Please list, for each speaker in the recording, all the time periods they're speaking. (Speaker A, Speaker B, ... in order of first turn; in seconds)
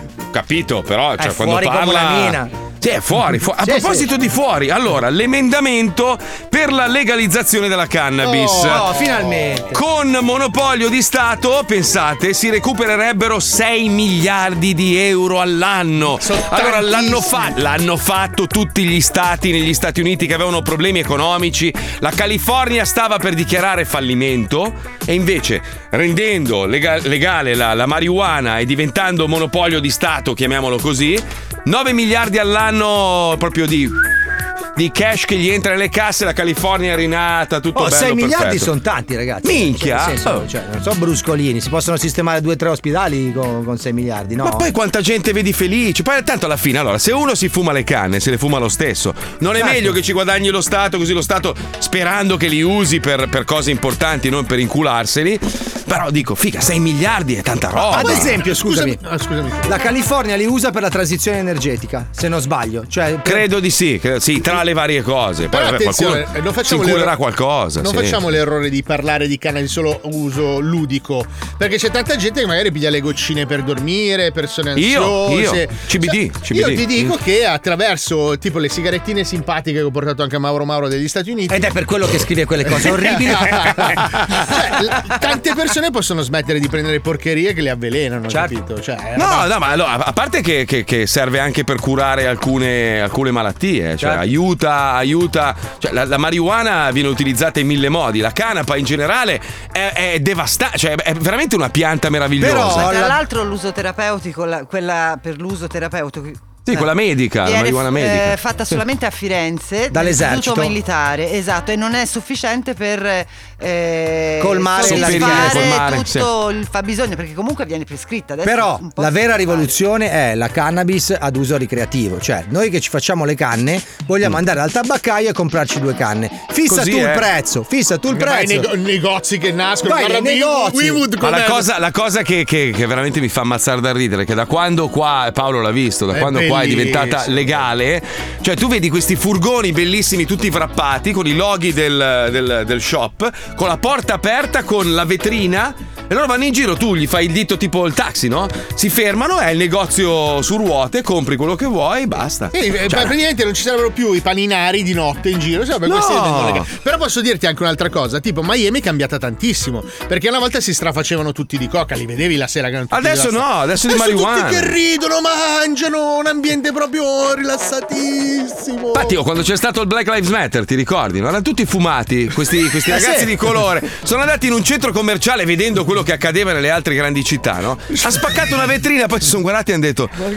Speaker A: 0.3-8.9, 9.7-34.0, 34.7-38.7, 39.4-40.5, 44.4-58.4, 63.2-68.2, 74.8-77.2, 89.2-103.0, 106.6-108.4, 114.8-116.3, 126.7-127.3, 131.2-153.1, 155.8-156.7, 162.9-164.7, 168.9-180.1
Speaker B: 1.2-2.5, 3.6-4.1, 8.4-9.8, 37.7-44.7, 49.6-50.0, 57.8-59.0, 59.6-63.5, 81.5-84.0, 102.4-103.2, 109.9-110.7, 114.4-115.8, 118.4-128.7, 129.8-131.1, 172.9-173.3
Speaker C: 8.7-9.6, 16.3-17.5, 57.9-59.8, 65.5-67.2, 67.8-81.7, 82.7-89.5, 128.1-131.7, 136.1-137.5, 152.5-169.2
Speaker D: 102.7-119.7